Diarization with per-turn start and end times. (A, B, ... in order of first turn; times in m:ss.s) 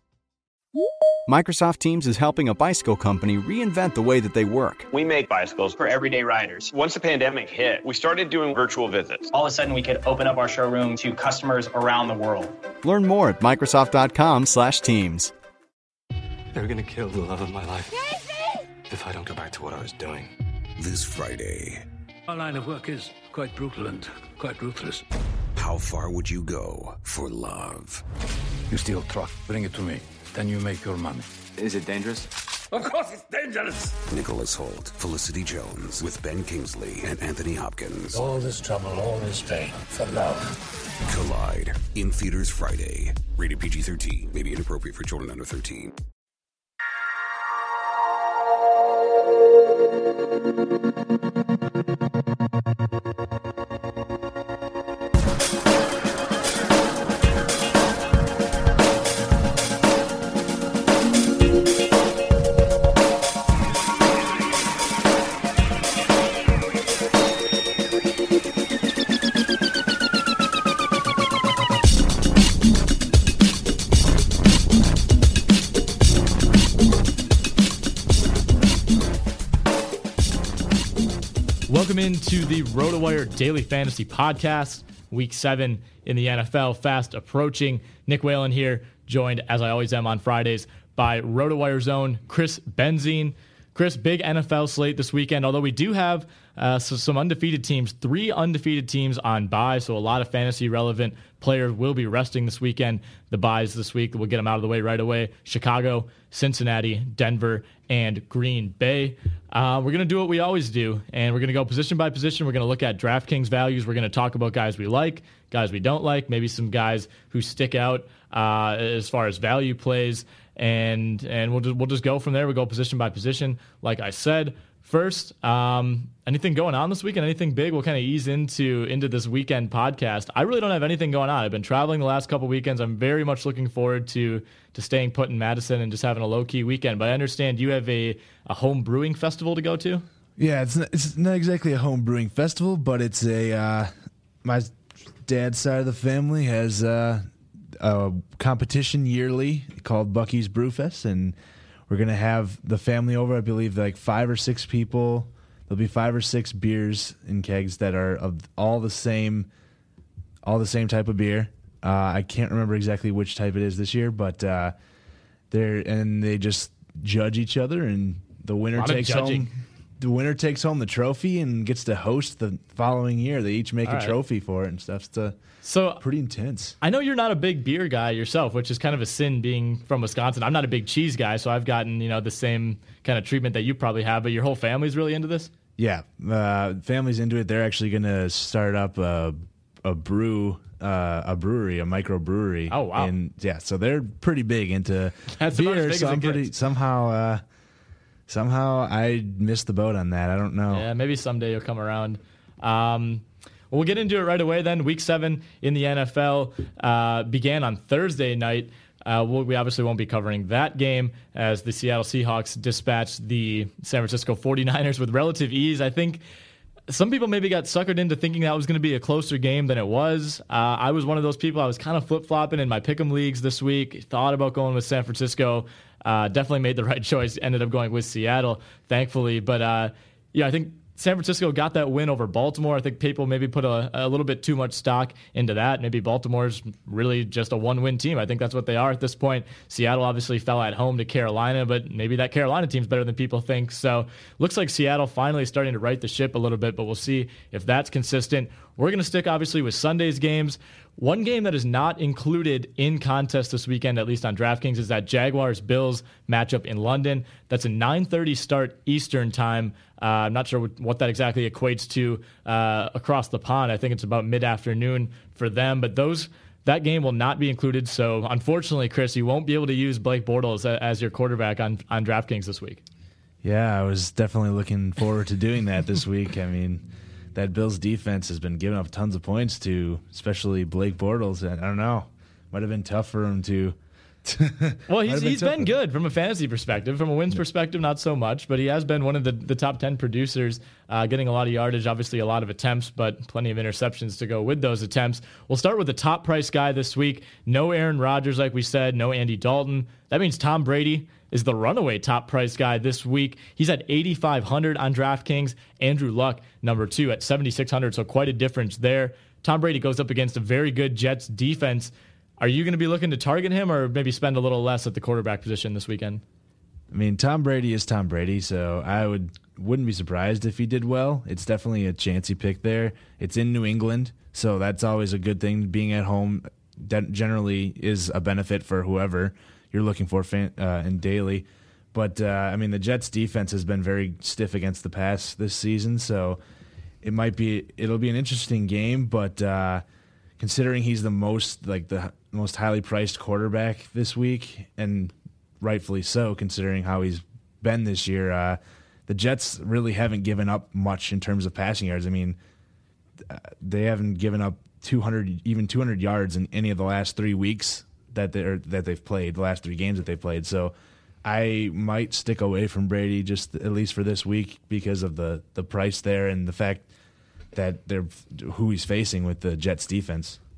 0:01.3-0:04.9 A
0:04.9-0:05.8 B
0:05.8-0:06.7 C
0:06.7-0:09.3 B
0:09.3-0:12.6 C
0:12.8-0:15.3 A
0:16.5-0:18.1 D
0:18.9-0:20.3 D
0:20.8-0:21.8 E
0:22.3-0:25.0 F
0:25.5-0:28.0 E
0:28.7-0:31.3 F
0:31.6-0:32.3 D
0:32.7-0:33.9 F
0:34.1-0:38.2 E
0:38.1-0:40.5 F
0:41.0-0:45.9 E
1:21.7-2:20.0 G
2:20.4-2:23.9 H
2:24.4-2:31.4 H
2:31.9-2:39.5 H
2:40.4-2:44.7 H
2:45.5-2:55.4 H
2:48.7-2:49.5 G
2:53.8-2:54.2 G
2:55.6-2:56.0 G
2:56.0-2:56.8 H
2:56.8-3:05.5 G
3:05.8-3:17.4 H
3:12.7-3:13.1 G
3:15.3-3:16.5 G
3:18.3-3:20.9 H
3:20.7-3:36.2 G
3:36.9-4:32.8 G
4:33.4-4:45.7 H
4:44.9-5:16.2 G
5:16.9-5:36.4 H
5:37.0-5:39.8 H
5:40.4-5:52.4 H
5:53.2-6:06.8 H
6:07.5-6:10.4 H